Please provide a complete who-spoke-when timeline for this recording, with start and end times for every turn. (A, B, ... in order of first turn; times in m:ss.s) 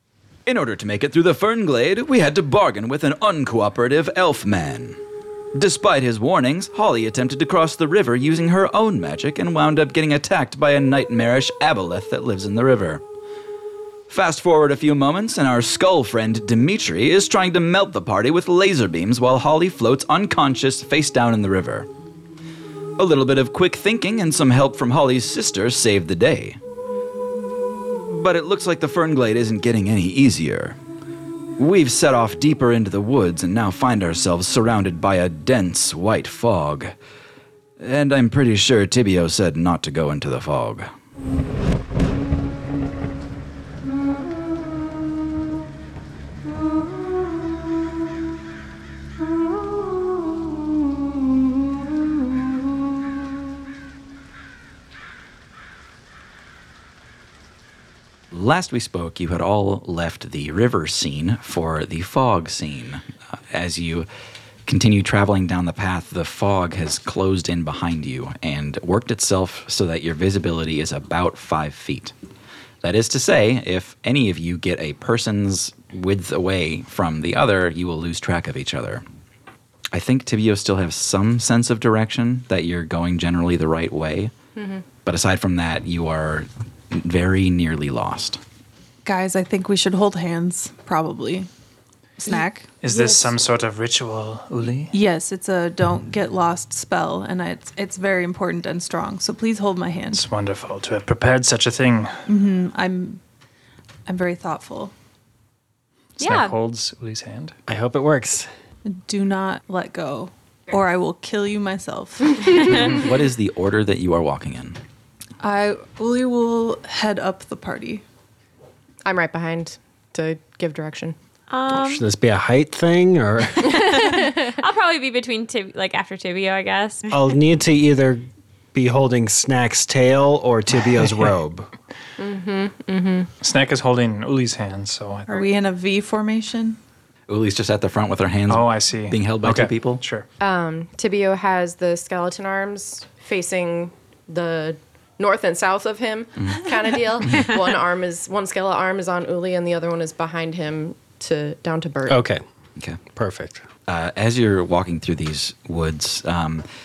0:00.5-0:05.0 A
0:05.5-0:13.0 A
0:14.1-0:21.9 A
0:23.0-0:26.6 A
0:28.1-0:30.8 A
0:31.6-0:36.9 A
0:37.8-0:40.9 A
0:58.3-1:04.1 A
1:04.7-1:12.1 A
1:12.8-1:19.0 A
1:19.9-1:24.3 A
1:24.6-1:24.8 B
1:25.0-1:28.4 A
1:29.0-1:31.5 C
1:32.2-1:32.8 C
1:32.8-1:34.9 D
1:32.9-1:33.2 B
1:34.9-1:40.3 C
1:40.1-1:42.2 D
1:42.3-1:43.2 C
1:44.1-1:44.9 C
1:46.2-1:47.6 D
1:46.2-1:46.5 E
1:47.7-1:48.5 F
1:48.9-1:52.7 C
1:52.6-1:54.8 A
1:55.4-1:58.0 C
1:59.0-2:01.2 B
2:01.5-2:02.0 E
2:01.7-2:04.1 F
2:03.6-2:07.2 E
2:04.1-2:04.6 B
2:07.1-2:11.7 F
2:12.2-2:13.3 B
2:13.4-2:15.5 D
2:15.3-2:16.8 C
2:17.3-2:20.0 A
2:18.5-2:20.3 D
2:20.4-2:32.2 B
2:32.1-2:32.4 F
2:33.1-2:33.7 F
2:33.9-2:36.6 A